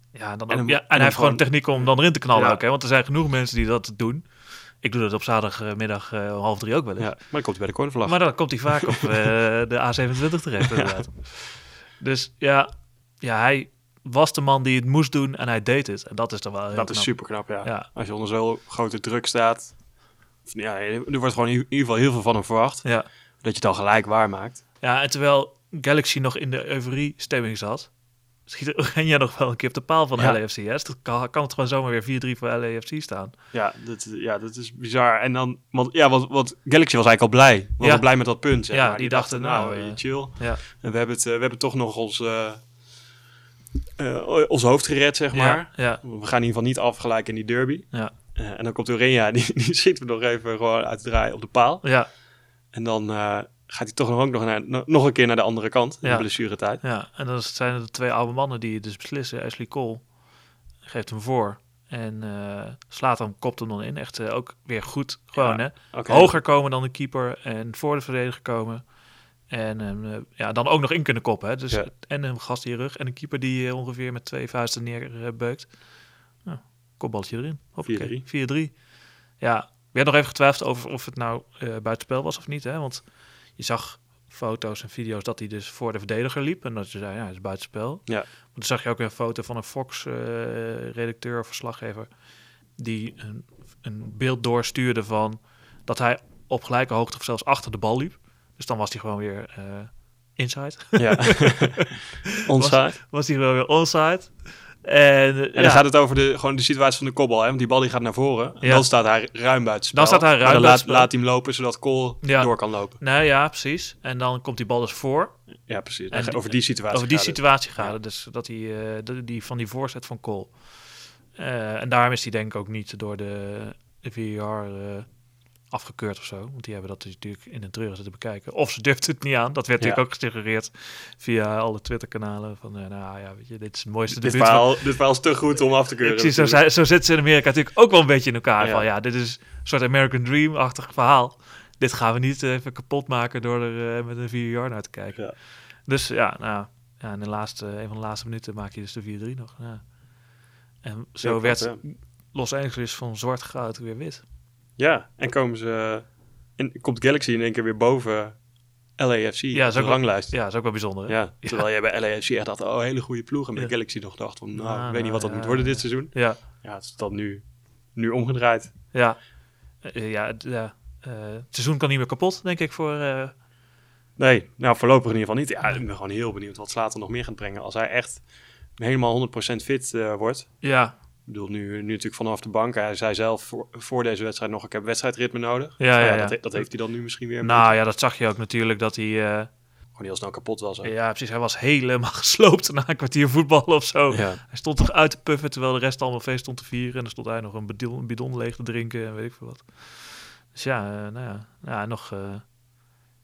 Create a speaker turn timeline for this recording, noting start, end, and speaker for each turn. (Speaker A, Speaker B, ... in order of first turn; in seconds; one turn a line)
Speaker A: 0.1-7.3
Speaker B: 0.5-2.6
Speaker B: 7.0-9.1
Speaker A: 8.0-17.9
Speaker B: 10.7-11.1
Speaker B: 16.7-19.9
Speaker B: 20.4-24.6
Speaker A: 24.8-33.4
Speaker B: 33.5-42.7
Speaker A: 37.8-40.6
Speaker B: 44.0-52.2
Speaker A: 45.3-46.0
Speaker A: 51.8-52.1
Speaker B: 52.7-56.8
Speaker A: 56.0-60.2
Speaker A: 60.8-69.0
Speaker B: 65.3-66.4
Speaker A: 69.5-105.8
Speaker B: 77.8-78.2
Speaker B: 101.0-103.0
Speaker B: 105.5-113.0
Speaker A: 108.6-108.9
Speaker A: 109.9-111.1
Speaker A: 112.2-134.9
Speaker B: 115.7-118.0
Speaker B: 134.1-136.6
Speaker A: 136.0-150.0
Speaker B: 138.6-138.9
Speaker A: 150.8-154.2
Speaker B: 151.2-151.8
Speaker B: 154.8-168.8
Speaker A: 159.5-161.7
Speaker A: 164.5-166.4
Speaker A: 168.9-169.2
Speaker A: 169.8-173.4
Speaker B: 174.2-187.7
Speaker A: 180.6-181.0
Speaker A: 185.8-189.5
Speaker B: 189.9-190.9
Speaker A: 190.8-202.5
Speaker B: 194.1-194.4